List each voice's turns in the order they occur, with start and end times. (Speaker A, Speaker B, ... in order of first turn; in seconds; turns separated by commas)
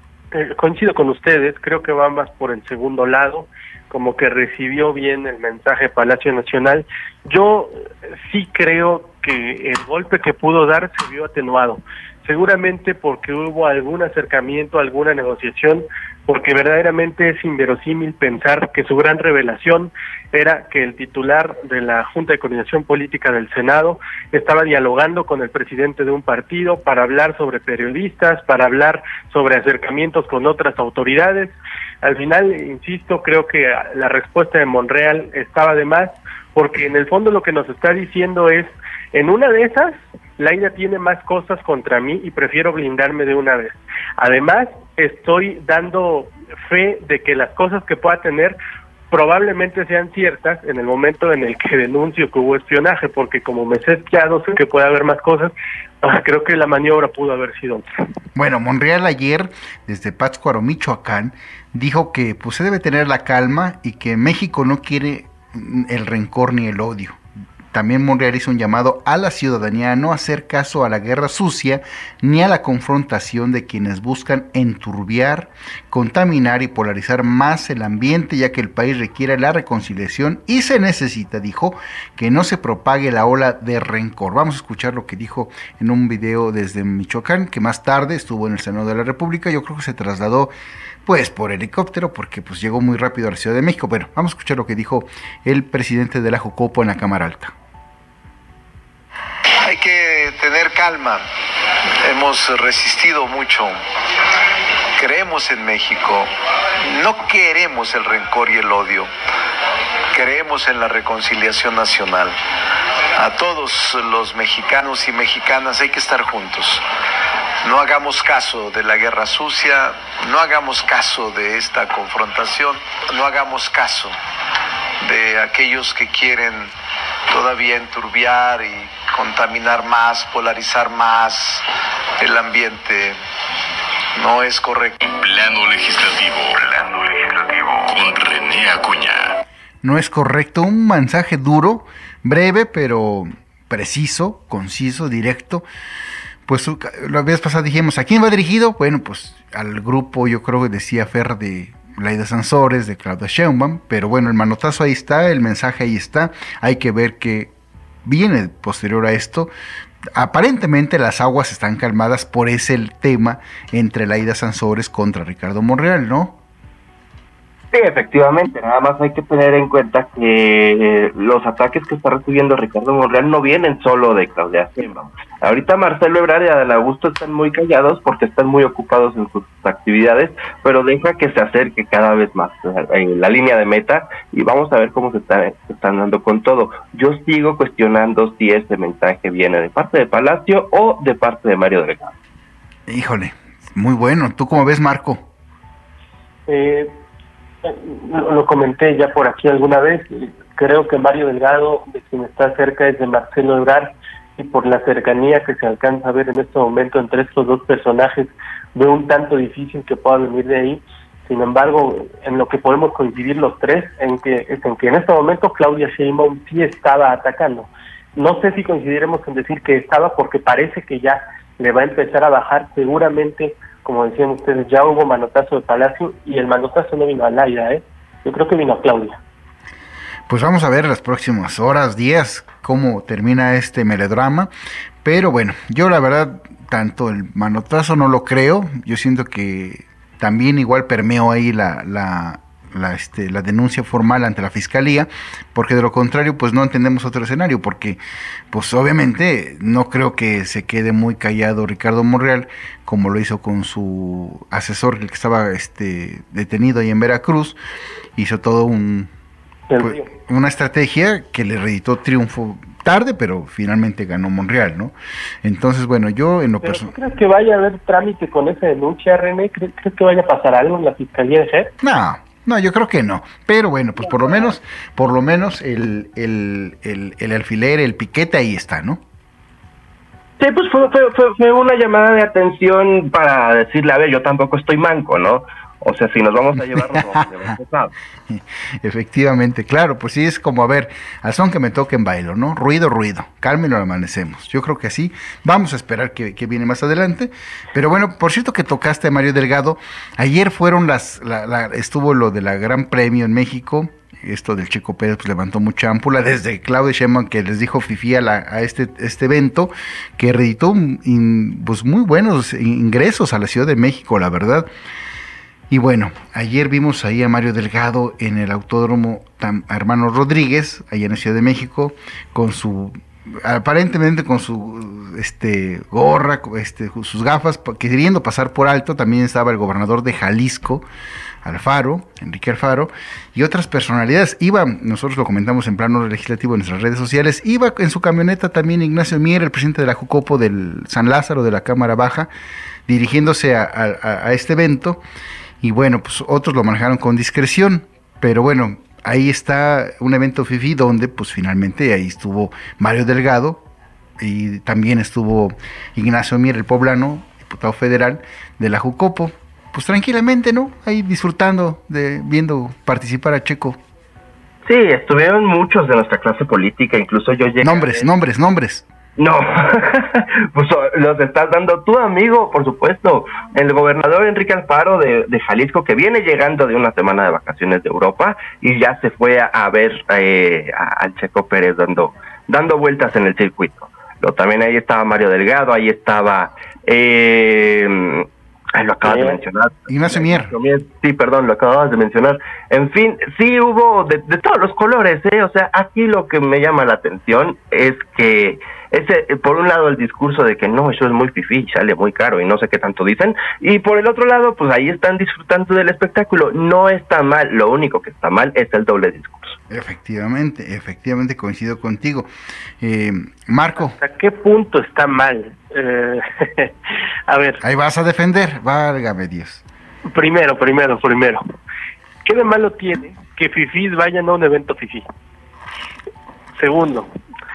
Speaker A: 0.3-48.6, Speaker A: 49.1-57.9, Speaker B: 58.4-67.2, Speaker B: 67.7-90.5, Speaker B: 91.1-97.5, Speaker C: 99.6-101.2, Speaker C: 102.0-103.8, Speaker C: 105.0-106.3, Speaker C: 106.8-109.1, Speaker C: 110.1-112.3, Speaker C: 113.2-116.8, Speaker C: 117.6-124.1, Speaker C: 125.0-126.7, Speaker C: 127.3-131.6, Speaker C: 132.2-133.2, Speaker C: 134.2-135.0, Speaker D: 135.0-139.4, Speaker B: 139.8-145.6, Speaker B: 146.5-157.5, Speaker B: 158.1-159.5, Speaker B: 160.2-166.4, Speaker E: 167.7-192.1, Speaker B: 192.9-195.2, Speaker A: 196.5-197.0, Speaker A: 197.6-229.2, Speaker B: 230.3-234.5, Speaker B: 235.0-248.0, Speaker B: 248.5-257.6, Speaker B: 258.2-259.1, Speaker A: 259.7-260.1, Speaker B: 259.8-266.9, Speaker A: 266.6-271.7, Speaker B: 271.8-279.0, Speaker E: 280.4-287.9, Speaker B: 286.8-287.1, Speaker B: 288.3-314.7, Speaker B: 315.7-330.9, Speaker B: 331.4-342.3, Speaker B: 342.9-345.0, Speaker B: 345.6-353.6, Speaker B: 354.2-363.8, Speaker E: 364.7-368.1, Speaker B: 367.6-368.9, Speaker E: 369.2-409.6, Speaker A: 389.0-389.4, Speaker B: 389.9-390.5, Speaker B: 409.7-412.3, Speaker B: 412.8-414.0, Speaker A: 413.8-416.8, Speaker A: 417.3-417.6, Speaker B: 417.6-419.6, Speaker A: 420.1-421.4, Speaker A: 422.2-425.0, Speaker A: 426.6-427.1